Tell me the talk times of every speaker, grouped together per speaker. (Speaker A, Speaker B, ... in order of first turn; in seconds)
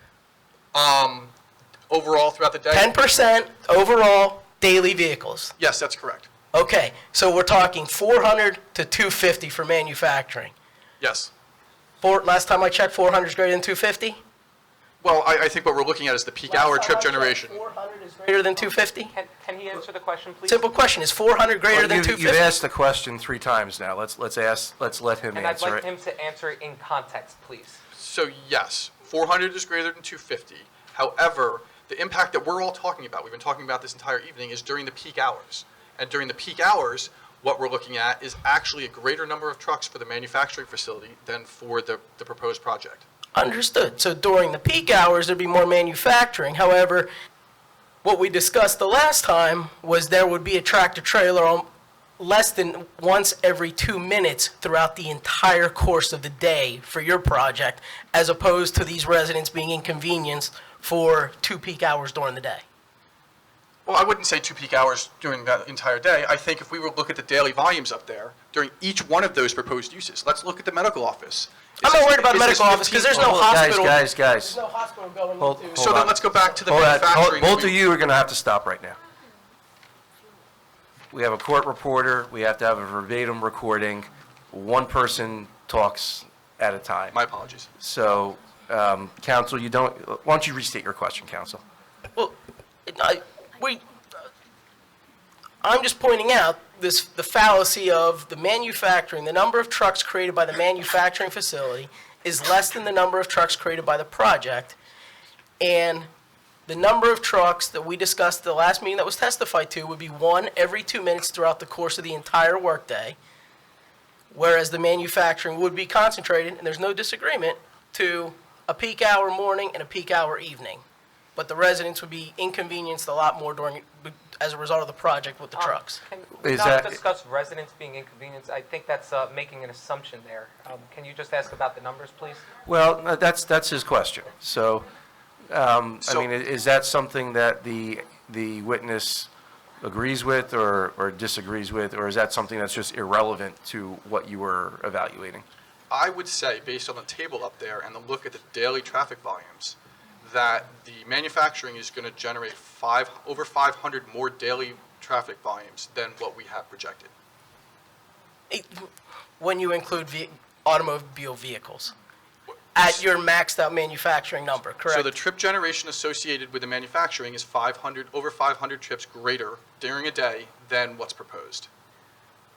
Speaker A: 0.7-1.3, 1.9-3.0, 5.6-6.3, 11.0-11.3, 15.0-17.6, 27.9-43.0, 63.9-73.4, 75.7-77.8, 87.1-87.7, 136.0-136.3, 145.9-157.1, 164.9-171.7
Speaker B: 2.7-5.5, 6.5-10.5, 12.0-14.2, 16.5-19.1, 20.5-22.5, 43.3-47.1, 48.0-51.7, 52.2-62.6, 71.8-76.9, 92.1-93.8, 95.6-104.8, 105.6-106.1, 106.7-113.2, 114.3-120.8, 121.3-126.0, 158.5-161.9, 162.7-165.1
Speaker C: 19.1-20.6, 25.3-27.8, 125.5-132.5
Speaker D: 21.7-25.8, 73.1-74.6, 75.4-79.0, 81.1-87.2, 87.8-91.6, 126.4-127.0, 132.6-134.9, 135.5-139.3, 139.8-145.4